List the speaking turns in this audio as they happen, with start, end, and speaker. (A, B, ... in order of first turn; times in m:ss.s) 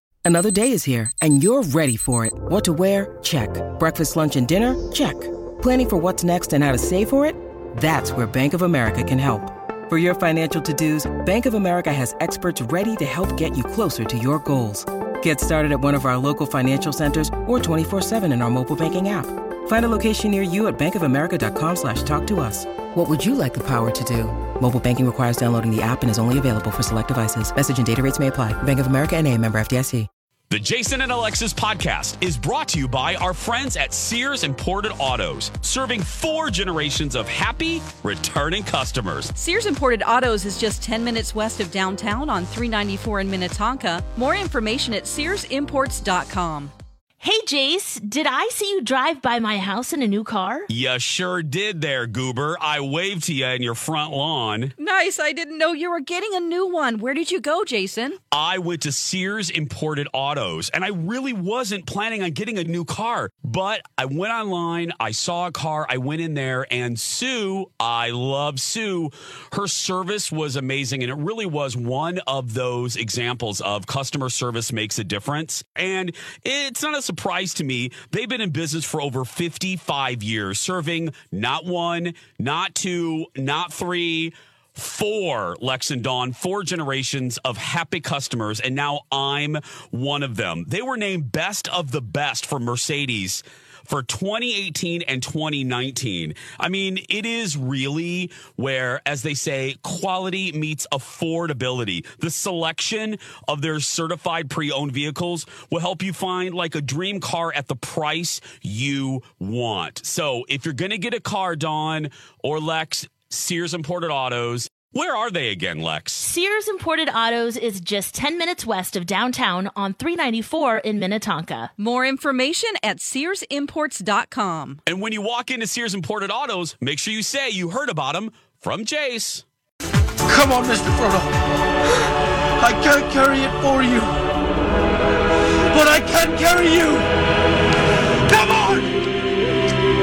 0:00.2-0:30.1 A
0:30.5-0:39.3 B
0:39.4-0:46.7 C
0:47.2-0:50.7 D
0:50.7-0:54.7 B
0:54.8-0:58.2 C
0:58.3-1:56.3 B
1:56.2-2:01.7 D
2:01.8-2:04.8 C
2:04.9-2:09.4 B
2:10.3-2:11.3 E
2:12.6-2:14.1 E
2:15.7-2:17.1 E
2:18.3-2:18.9 E